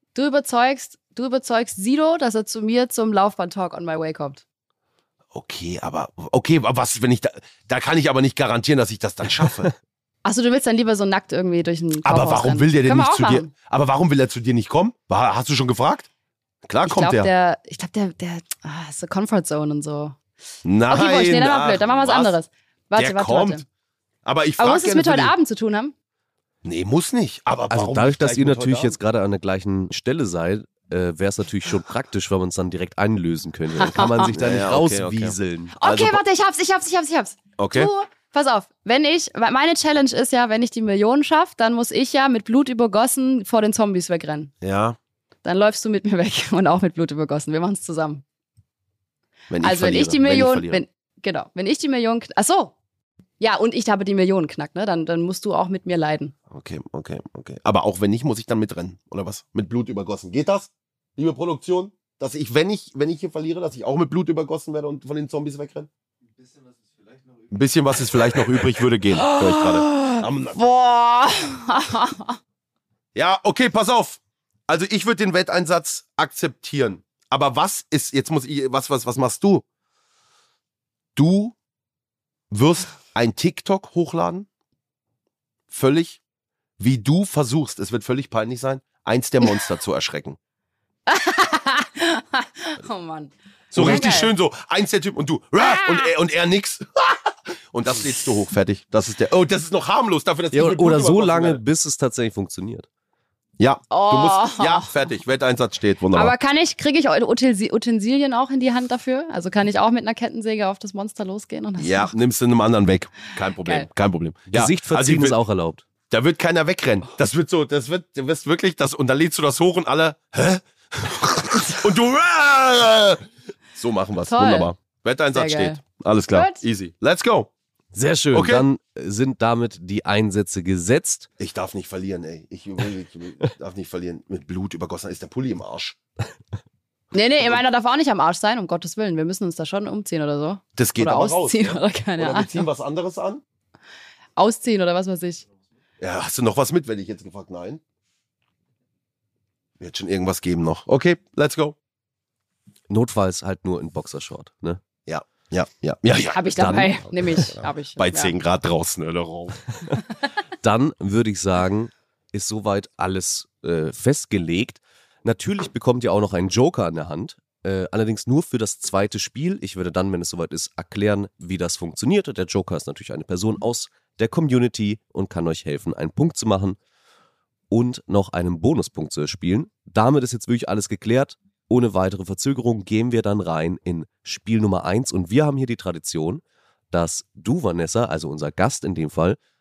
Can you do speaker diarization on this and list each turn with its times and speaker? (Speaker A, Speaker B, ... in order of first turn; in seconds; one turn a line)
Speaker A: 0.1-4.4
Speaker B: 5.3-9.7
Speaker A: 10.2-13.5
Speaker B: 12.0-16.1
Speaker B: 16.6-17.3
Speaker A: 16.9-20.2
Speaker B: 20.6-22.4
Speaker A: 20.9-23.6
Speaker B: 23.0-23.6
Speaker B: 24.2-25.3
Speaker A: 24.6-25.9
Speaker B: 26.6-29.0
Speaker C: 27.7-35.8
Speaker A: 33.8-34.3
Speaker B: 34.3-36.2
Speaker A: 35.8-44.5
Speaker B: 37.6-37.9
Speaker B: 44.6-45.0
Speaker A: 45.5-48.2
Speaker B: 49.5-50.9
Speaker A: 49.6-52.7
Speaker A: 53.4-56.3
Speaker B: 56.5-65.9
Speaker B: 67.5-70.6
Speaker A: 69.1-72.4
Speaker B: 73.2-79.7
Speaker B: 81.2-81.6
Speaker B: 82.5-84.5
Speaker B: 85.7-86.2
Speaker B: 86.8-90.4
Speaker A: 91.1-94.3
Speaker B: 93.7-101.6
Speaker C: 93.8-94.1
Speaker A: 95.6-96.1
Speaker C: 100.5-102.9
Speaker B: 103.6-106.3
Speaker A: 103.9-104.9
Speaker A: 106.1-112.1
Speaker B: 111.8-115.4
Speaker A: 113.6-113.9
Speaker C: 114.5-115.8
Speaker B: 116.1-123.2
Speaker B: 123.8-127.5
Speaker A: 124.3-124.7
Speaker A: 125.3-125.8
Speaker A: 126.3-126.6
Speaker C: 127.9-131.3
Speaker B: 128.3-128.7
Speaker B: 131.4-136.0
Speaker A: 137.1-142.7
Speaker B: 140.8-143.4
Speaker A: 144.4-145.4
Speaker B: 146.0-147.8
Speaker B: 149.8-151.8
Speaker C: 152.9-154.8
Speaker B: 155.1-159.6
Speaker A: 156.3-158.3
Speaker C: 156.6-156.9
Speaker C: 160.6-176.8
Speaker C: 177.7-189.4